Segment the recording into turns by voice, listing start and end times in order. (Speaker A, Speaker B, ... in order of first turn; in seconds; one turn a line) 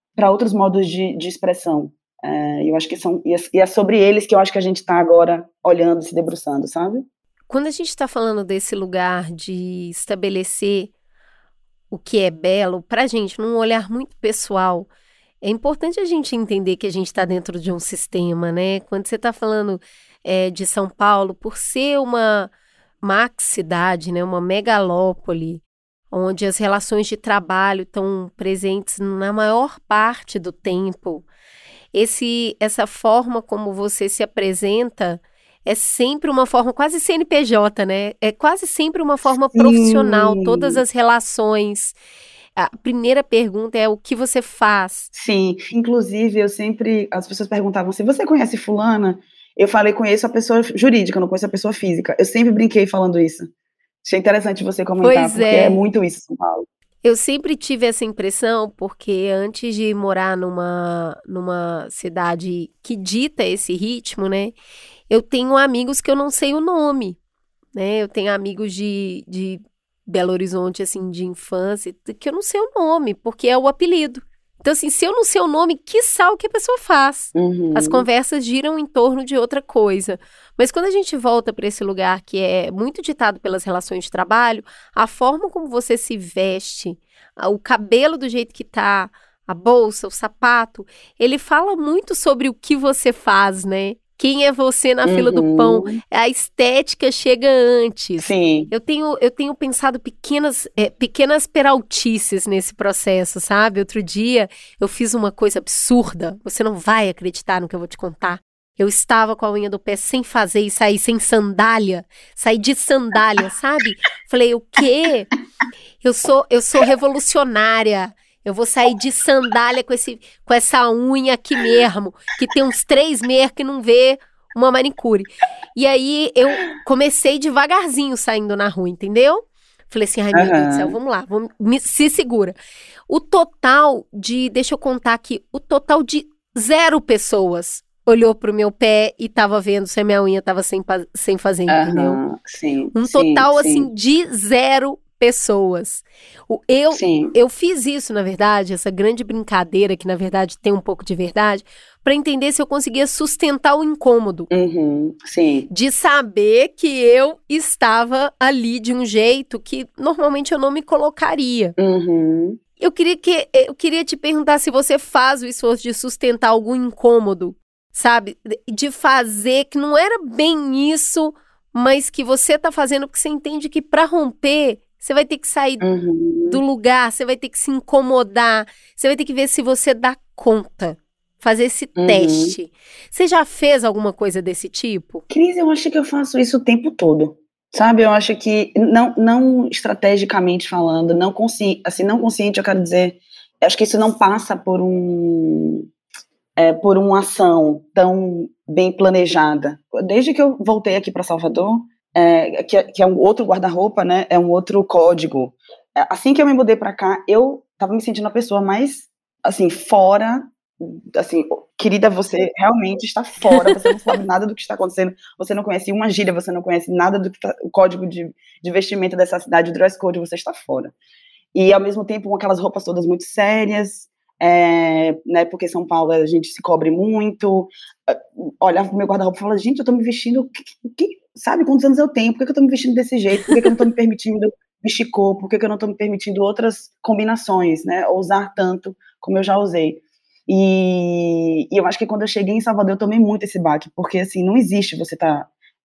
Speaker A: 0.1-7.1
Speaker B: 7.5-10.9
Speaker B: 11.9-14.9
Speaker B: 15.4-22.5
Speaker B: 23.0-31.3
Speaker B: 31.9-42.0
Speaker A: 39.5-40.8
Speaker B: 42.6-45.1
Speaker A: 45.1-53.5
Speaker A: 54.0-56.7
Speaker B: 55.0-55.8
Speaker B: 57.0-64.5
Speaker B: 65.1-67.2
Speaker B: 67.8-115.3
Speaker A: 77.3-78.1
Speaker A: 95.1-96.0
Speaker A: 98.2-98.7
Speaker B: 116.0-132.6
Speaker A: 130.3-131.0
Speaker B: 133.1-142.2
Speaker A: 141.7-143.9
Speaker B: 142.9-154.5
Speaker A: 146.9-147.4
Speaker A: 154.5-155.7
Speaker B: 155.7-161.8
Speaker A: 161.8-162.6
Speaker B: 162.8-175.8
Speaker A: 175.8-176.6
Speaker B: 176.5-185.2
Speaker A: 182.0-182.6
Speaker A: 185.3-195.9
Speaker A: 196.6-220.9
Speaker B: 213.5-213.9
Speaker A: 221.5-245.5